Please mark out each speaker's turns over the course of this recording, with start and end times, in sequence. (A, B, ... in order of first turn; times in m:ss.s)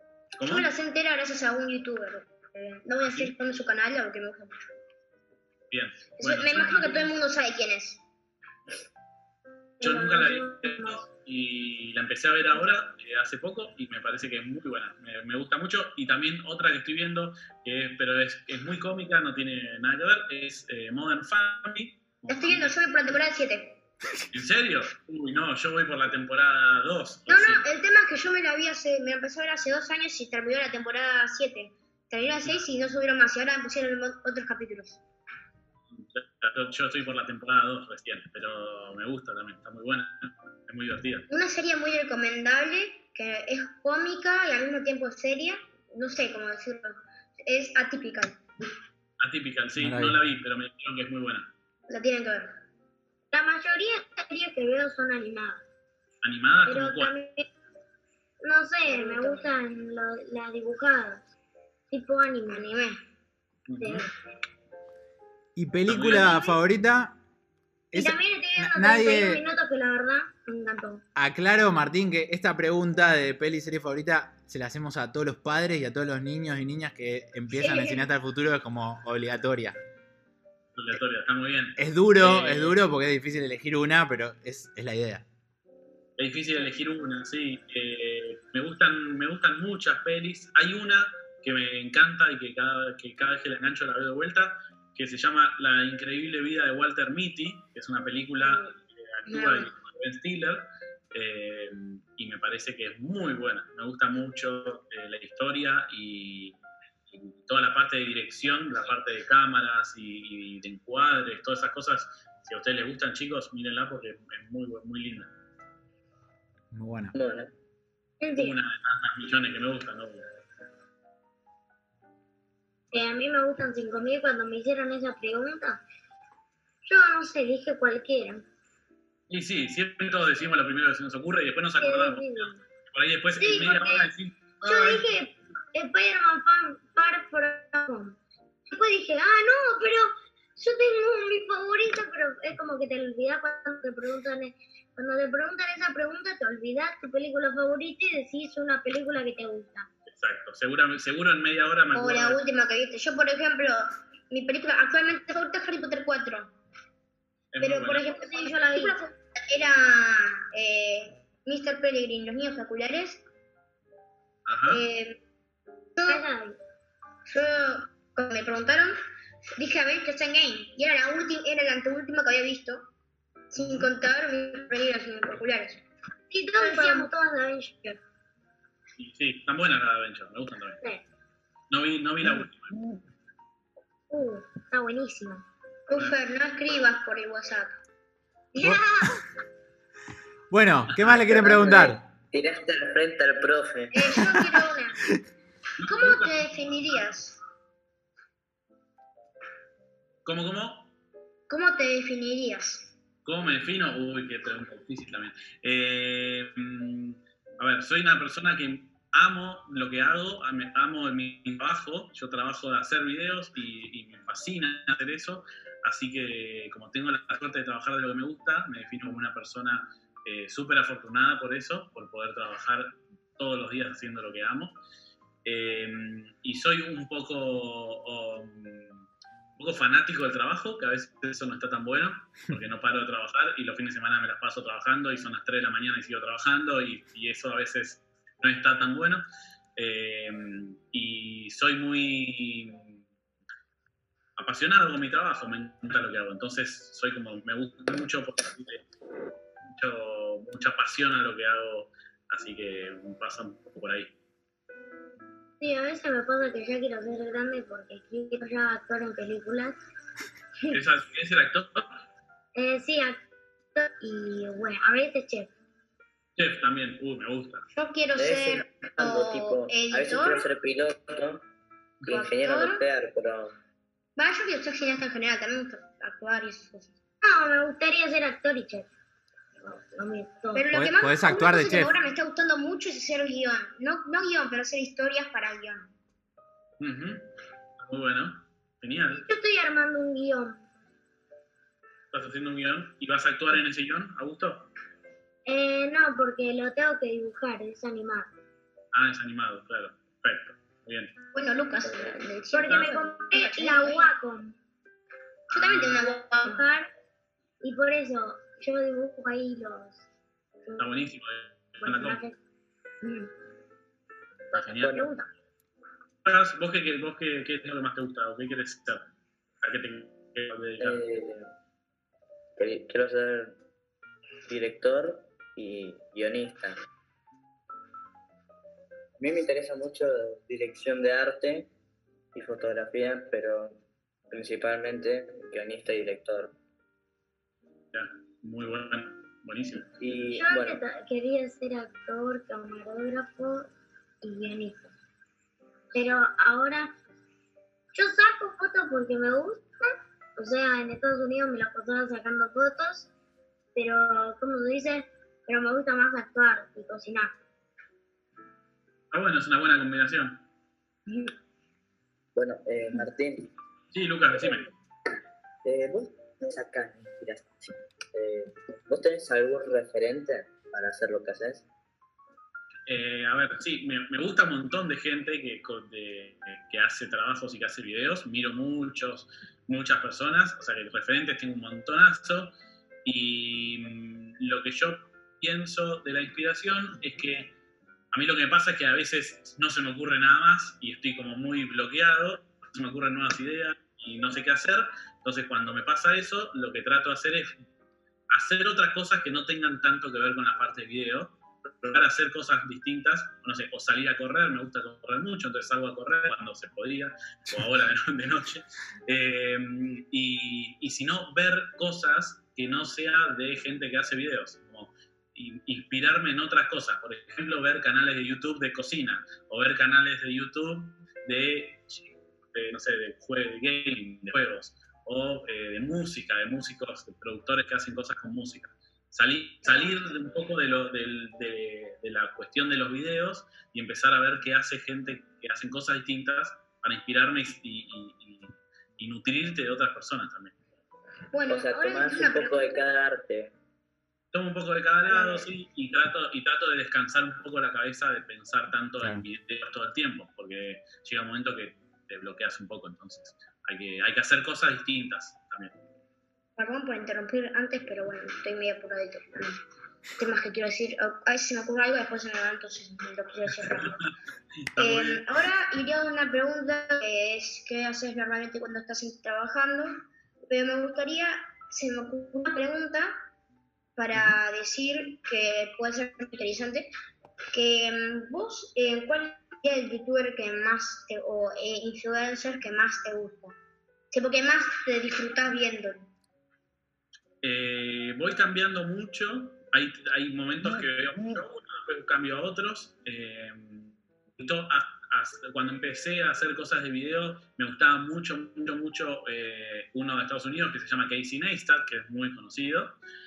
0:00.4-0:00.7 A
0:00.4-0:04.6 B
0:03.0-0:03.3 A
0:05.7-0:07.1 A
0:06.2-0:08.0 B
0:09.8-0:11.0 C
0:09.8-0:23.2 A
0:22.3-0:23.8 B
0:24.3-0:27.6 A
0:27.3-0:35.0 B
0:35.9-0:41.3 A
0:41.3-0:48.4 B
0:49.2-0:51.5 A
0:49.8-0:50.2 D
0:51.9-0:52.6 B
0:53.3-0:55.6 C
0:56.2-0:57.1 A
0:56.6-0:57.5 C
0:58.4-1:01.3 C
0:58.9-0:59.5 B
1:01.9-1:02.6 C
1:02.5-1:03.0 B
1:03.7-1:04.0 A
1:03.8-1:04.1 C
1:05.6-1:07.2 D
1:05.9-1:06.4 A
1:06.1-1:06.6 C
1:07.9-1:09.4 D
1:07.9-1:11.0 C
1:11.2-1:19.8 D
1:17.5-1:18.1 C
1:20.7-1:22.8 A
1:21.8-1:25.2 D
1:26.2-1:46.6 A
1:39.3-1:39.7 B
1:47.1-1:55.3 A
1:56.7-1:57.1 D
1:57.1-1:57.5 E
1:58.2-1:58.6 C
1:58.4-2:00.2 A
2:02.9-2:05.8 C
2:06.8-2:08.4 C
2:09.3-2:15.0 A
2:11.8-2:12.6 C
2:13.4-2:14.1 C
2:14.6-2:18.2 C
2:18.7-2:29.9 C
2:30.1-2:32.4 A
2:31.9-2:36.5 B
2:37.5-2:38.2 A
2:37.6-2:43.2 B
2:38.1-2:39.0 C
2:44.4-2:44.8 A
2:44.7-2:45.2 B
2:45.9-2:46.2 B
2:46.0-2:46.6 C
2:47.3-2:48.9 B
2:49.6-2:52.9 B
2:53.5-2:55.8 B
2:53.5-2:53.9 A
2:56.3-2:58.0 C
2:56.6-2:57.1 B
2:59.0-3:00.8 A
3:01.7-3:02.8 A
3:04.1-3:05.4 C
3:05.9-3:07.8 B
3:05.9-3:06.2 A
3:08.5-3:09.2 C
3:10.5-3:12.0 D
3:10.9-3:11.2 A
3:11.2-3:14.2 E
3:13.9-3:15.0 B
3:14.2-3:14.6 D
3:15.8-3:16.4 A
3:15.8-3:17.4 B
3:20.2-3:20.9 A
3:21.5-3:22.9 B
3:23.2-3:44.8 A
3:45.4-3:49.0 A
3:49.6-3:59.2 A
3:59.8-4:03.0 A
4:04.4-4:08.8 A
4:09.6-4:14.1 A
4:15.6-4:19.8 C
4:20.7-4:22.0 A
4:22.5-4:23.2 C
4:23.8-4:25.5 C
4:26.4-4:27.7 A
4:27.7-4:30.4 B
4:28.2-4:31.4 E
4:32.0-4:33.6 E
4:32.1-4:32.8 B
4:34.2-4:36.9 B
4:37.2-4:38.9 C
4:39.6-4:40.7 C
4:40.5-4:45.9 B
4:40.7-4:41.9 D
4:46.8-4:47.3 A
4:47.8-4:49.2 A
4:49.1-4:50.6 C
4:52.1-4:54.7 A
4:55.4-4:58.3 C
4:58.9-5:01.1 A
5:01.3-5:04.1 B
5:01.8-5:02.2 E
5:02.5-5:04.6 C
5:05.5-5:06.1 A
5:05.5-5:06.6 B
5:06.1-5:06.9 C
5:07.6-5:10.0 C
5:10.8-5:12.2 A
5:11.8-5:12.4 C
5:13.0-5:13.3 C
5:14.5-5:15.1 A
5:14.5-5:15.1 E
5:14.9-5:15.3 C
5:16.2-5:19.1 A
5:19.6-5:21.0 A
5:20.8-5:21.5 E
5:22.6-5:23.6 E
5:24.5-5:26.8 E
5:29.2-5:31.7 E
5:32.3-5:33.8 E
5:34.3-5:36.5 E
5:37.9-5:39.9 A
5:40.0-5:40.8 E
5:40.3-5:43.7 C
5:44.2-5:44.9 C
5:45.9-5:46.9 C
5:47.9-5:53.1 C
5:53.7-5:57.4 C
5:59.1-6:00.4 A
6:01.1-6:01.3 C
6:02.3-6:03.5 E
6:03.9-6:04.7 A
6:05.6-6:11.6 E
6:12.9-6:22.5 A
6:23.0-6:27.5 A
6:28.1-6:37.5 A
6:38.3-7:02.0 A
7:02.5-7:20.5 A
7:09.6-7:10.1 B
7:21.3-7:22.8 B
7:21.5-7:23.5 E
7:24.3-7:35.7 A
7:25.0-7:25.5 B
7:36.6-7:39.6 B
7:40.2-7:44.0 B
7:44.7-7:45.3 A
7:44.8-7:53.1 B
7:54.0-7:56.9 B
7:57.5-8:03.6 B
8:04.1-8:06.1 B
8:07.4-8:23.0 A